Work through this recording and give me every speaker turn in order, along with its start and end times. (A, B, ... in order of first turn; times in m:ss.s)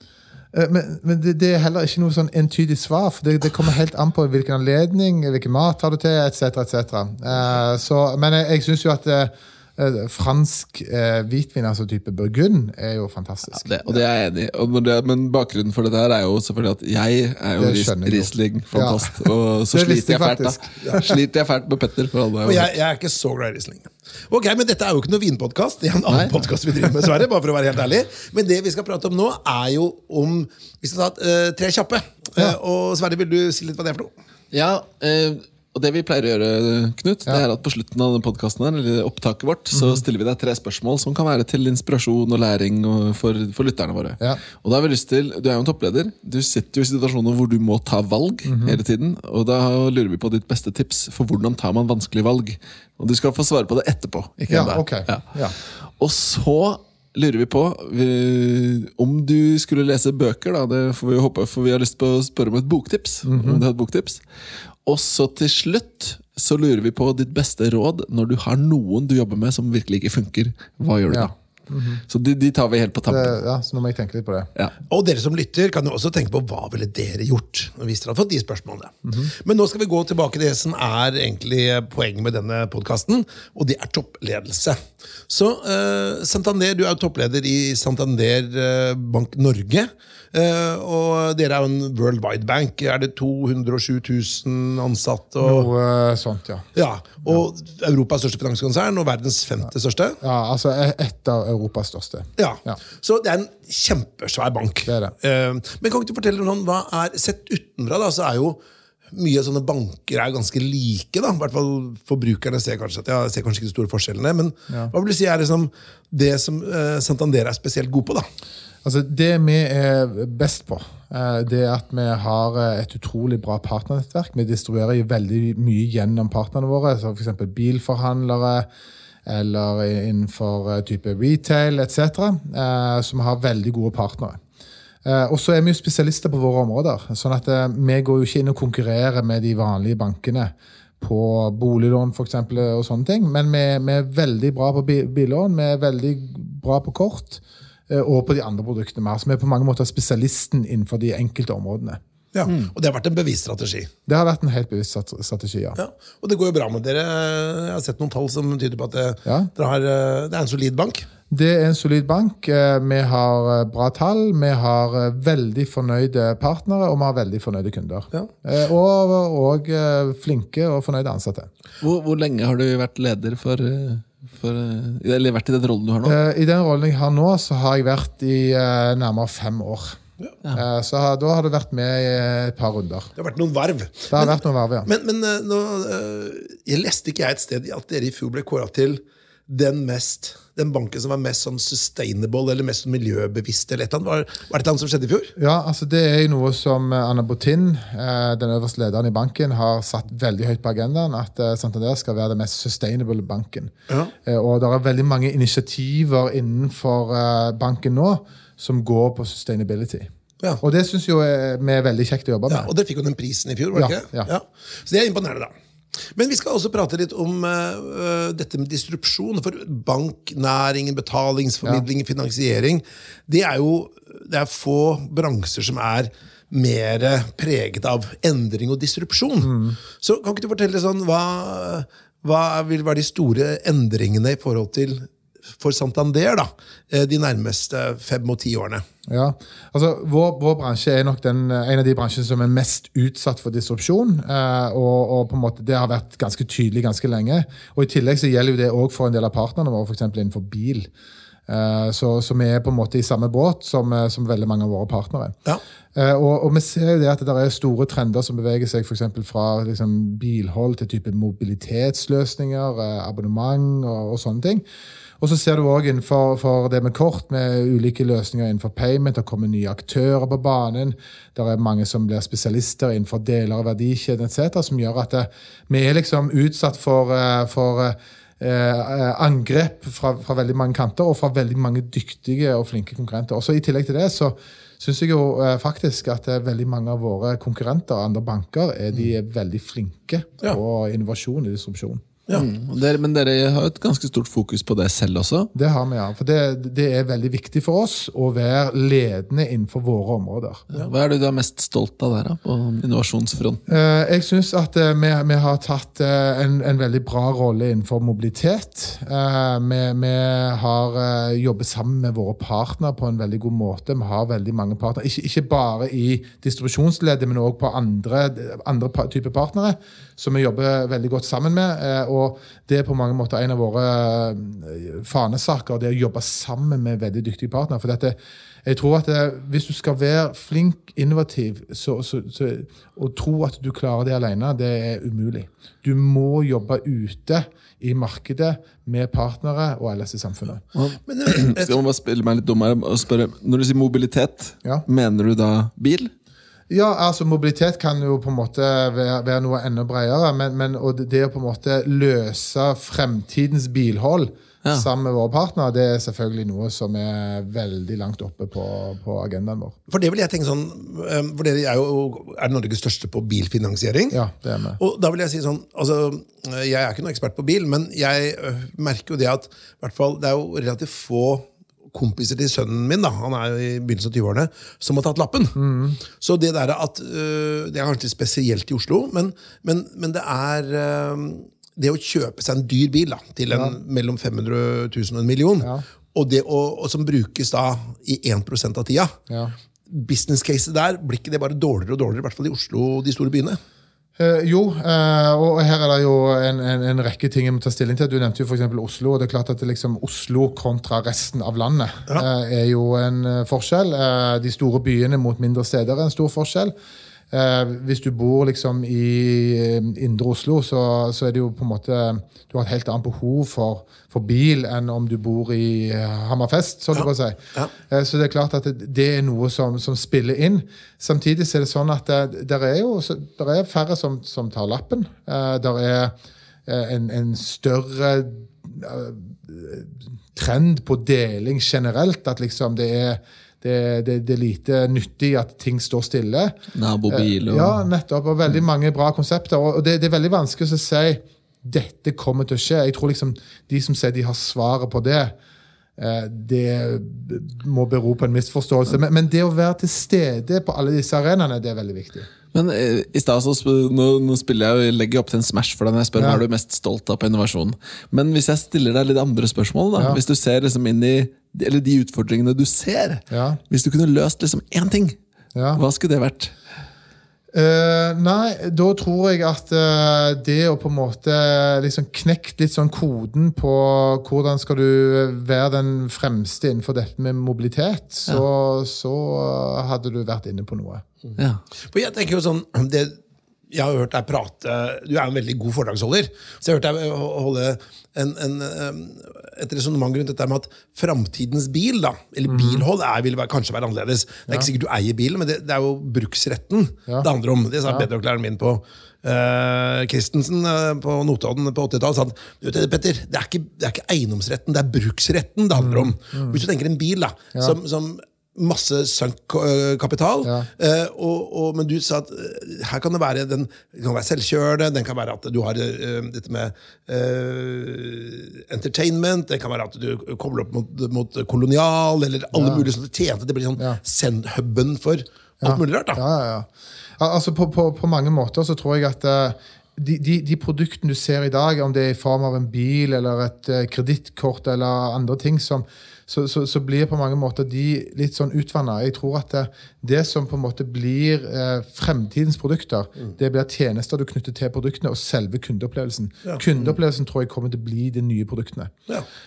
0:00.5-0:13.7 A
0:13.6-0:22.7 B
0:17.6-0:21.2 A
0:22.4-0:34.1 C
0:26.1-0:26.4 B
0:34.5-1:04.2 B
0:39.8-0:40.0 A
0:48.5-0:48.8 A
0:54.5-0:55.6 A
1:03.2-1:03.6 A
1:04.8-1:11.3 B
1:11.1-1:12.0 A
1:12.1-1:13.4 B
1:13.1-1:14.5 A
1:14.9-1:35.7 C
1:19.0-1:19.3 A
1:35.4-1:36.7 A
1:36.8-1:40.2 C
1:40.2-1:42.8 A
1:42.4-1:48.6 C
1:44.9-1:45.1 A
1:49.1-1:58.3 C
1:58.8-2:08.7 A
2:09.3-2:14.4 A
2:15.0-2:32.0 A
2:32.3-2:33.9 C
2:34.1-2:35.8 A
2:35.8-2:41.1 C
2:39.2-2:39.5 A
2:41.3-2:51.5 A
2:51.8-2:56.2 B
2:56.0-3:00.0 A
3:00.5-3:03.1 A
3:03.2-3:15.3 C
3:04.1-3:04.9 A
3:15.4-3:23.7 A
3:24.2-3:30.1 A
3:30.6-3:32.7 A
3:32.5-3:35.5 C
3:33.8-3:34.3 A
3:36.2-3:58.8 C
3:49.4-3:49.8 A
3:59.1-4:10.9 A
4:11.5-4:15.4 A
4:16.0-4:24.6 A
4:25.2-4:52.0 A
4:52.3-4:55.5 B
4:55.5-5:00.6 A
5:00.7-5:03.6 B
5:03.7-5:40.6 A
5:40.8-5:46.1 B
5:41.1-5:41.8 C
5:46.7-5:59.8 A
5:59.9-6:04.2 C
6:04.1-6:04.8 A
6:04.8-6:15.6 C
6:15.6-6:16.0 A
6:16.1-6:29.2 C
6:23.5-6:23.8 A
6:29.3-6:29.6 A
6:29.9-6:33.6 C
6:34.2-6:46.7 A
6:47.3-7:06.1 A
6:57.0-6:57.7 C
7:06.7-7:16.6 A
7:16.7-7:17.9 B
7:17.1-7:25.4 A
7:26.0-7:32.3 A
7:32.5-7:45.2 B
7:36.2-7:36.4 A
7:40.0-7:40.2 A
7:43.3-7:43.6 A
7:45.6-7:45.8 A
7:45.8-7:46.5 B
7:47.5-8:01.0 A
8:01.9-8:03.2 C
8:03.7-8:46.2 C
8:12.5-8:12.8 A
8:25.8-8:26.6 A
8:30.4-8:30.7 A
8:42.5-8:42.9 A
8:45.6-9:08.9 A
9:06.4-9:07.0 C